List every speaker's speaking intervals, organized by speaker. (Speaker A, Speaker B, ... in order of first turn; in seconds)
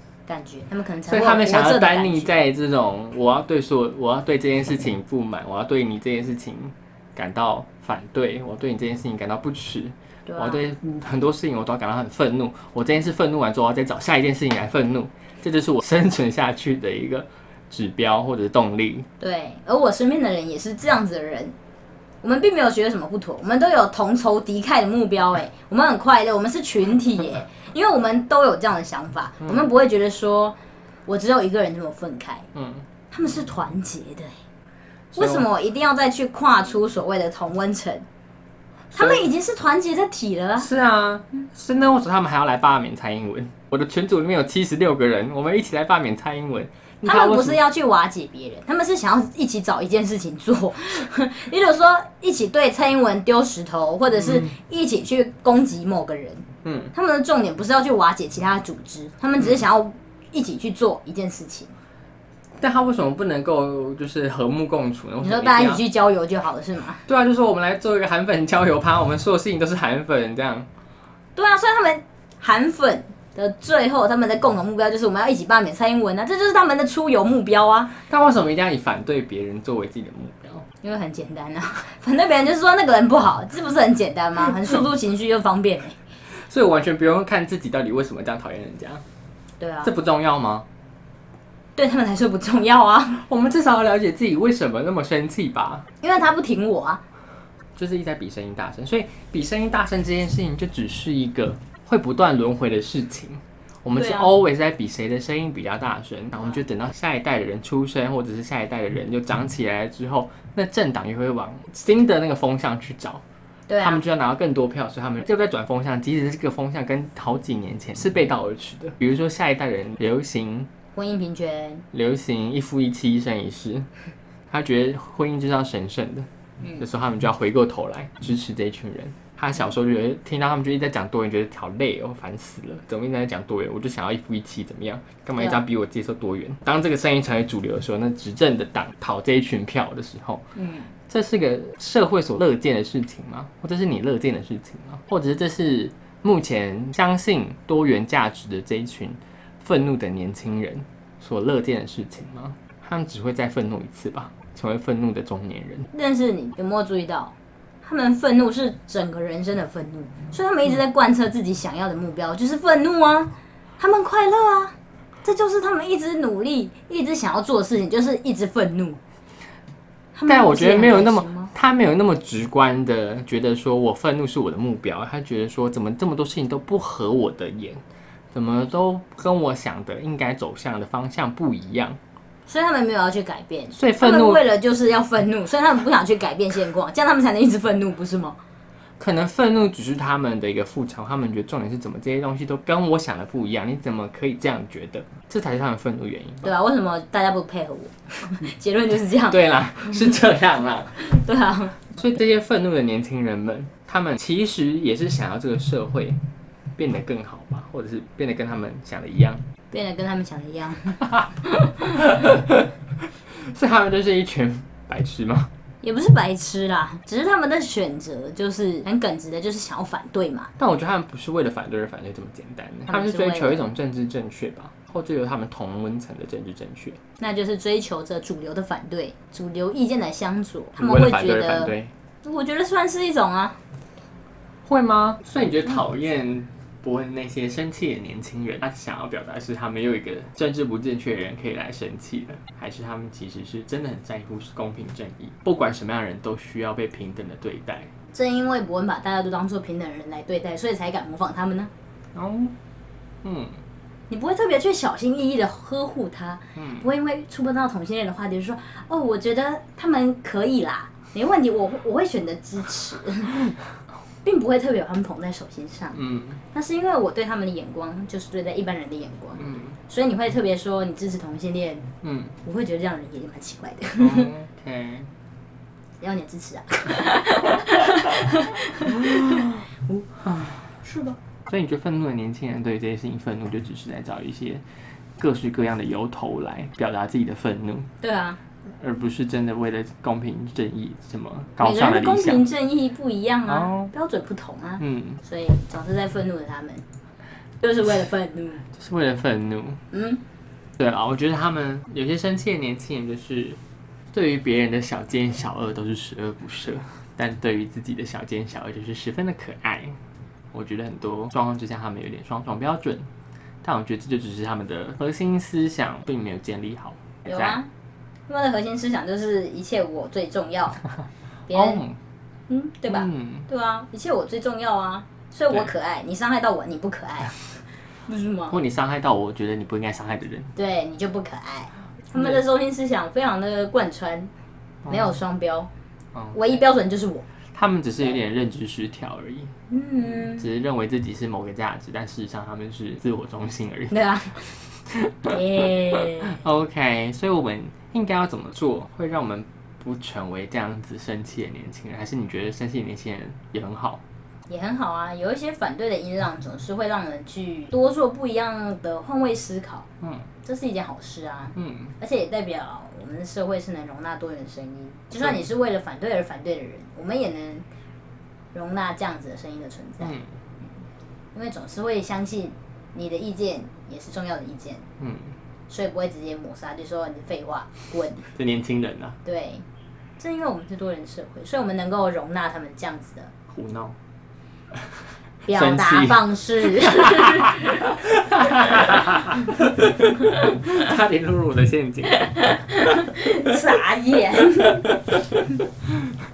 Speaker A: 0.3-2.3, 10.3-10.6, 19.2-21.6, 22.2-32.5, 33.1-34.3, 35.1-38.0, 39.0-40.7, 47.0-61.7, 65.2-67.0, 71.4-78.0, 80.8-86.0, 89.6-89.9, 91.8-93.2, 96.0-97.0, 103.9-104.3, 113.7-114.0, 120.9-121.8, 140.6-140.9, 155.9-169.0, 170.2-171.5, 182.5-188.4, 196.4-199.6, 201.0-201.9, 209.7-212.1, 215.8-220.5, 222.9-223.7, 227.2-233.6, 248.1-251.7, 254.1-263.5, 264.2-266.0, 266.5-271.9, 272.4-274.3, 276.0-280.2, 280.8-281.2, 288.0-288.4, 291.6-296.8, 297.6-298.6, 299.9-300.2, 317.3-317.7, 318.3-320.9, 321.5-321.8, 322.5-328.6, 330.6-334.3, 334.9-335.7, 336.3-337.3, 339.7-340.5, 343.9-344.5, 345.3-346.4, 354.5-359.9, 360.4-367.7, 368.5-370.2, 371.4-374.9, 375.7-378.3, 379.2-379.6, 380.2-383.3, 385.5-387.7, 390.2-390.7, 392.2-394.9
Speaker B: 1.1-19.1, 32.5-32.9, 35.1-35.5, 38.9-39.2, 40.6-47.6, 54.1-54.5, 56.6-56.9, 62.6-65.8, 67.1-70.7, 78.1-80.7, 86.4-89.0, 89.8-90.7, 93.1-95.8, 97.8-113.2, 113.8-120.7, 121.9-123.9, 124.5-126.3, 126.8-140.4, 141.1-155.9, 170.3-177.8, 178.3-182.0, 183.7-184.4, 189.0-196.5, 199.3-201.1, 201.9-206.2, 206.8-209.5, 212.0-212.7, 213.3-215.5, 220.6-227.0, 230.8-231.9, 234.7-247.9, 252.1-252.6, 253.2-253.6, 256.6-256.9, 265.9-266.4, 269.4-269.8, 272.0-272.4, 274.0-275.1, 278.9-279.6, 280.2-280.7, 281.5-284.6, 285.2-287.9, 288.8-292.4, 293.5-293.9, 294.8-295.2, 298.7-299.8, 300.8-303.6, 304.1-310.0, 310.5-313.1, 313.6-317.6, 321.5-322.0, 322.9-323.5, 328.5-330.5, 332.1-332.4, 334.9-335.2, 336.1-336.4, 337.5-339.5, 340.1-345.4, 346.3-354.0, 360.0-360.3, 361.6-361.9, 370.0-370.3, 375.0-375.4, 378.4-379.2, 383.5-384.0, 385.4-393.6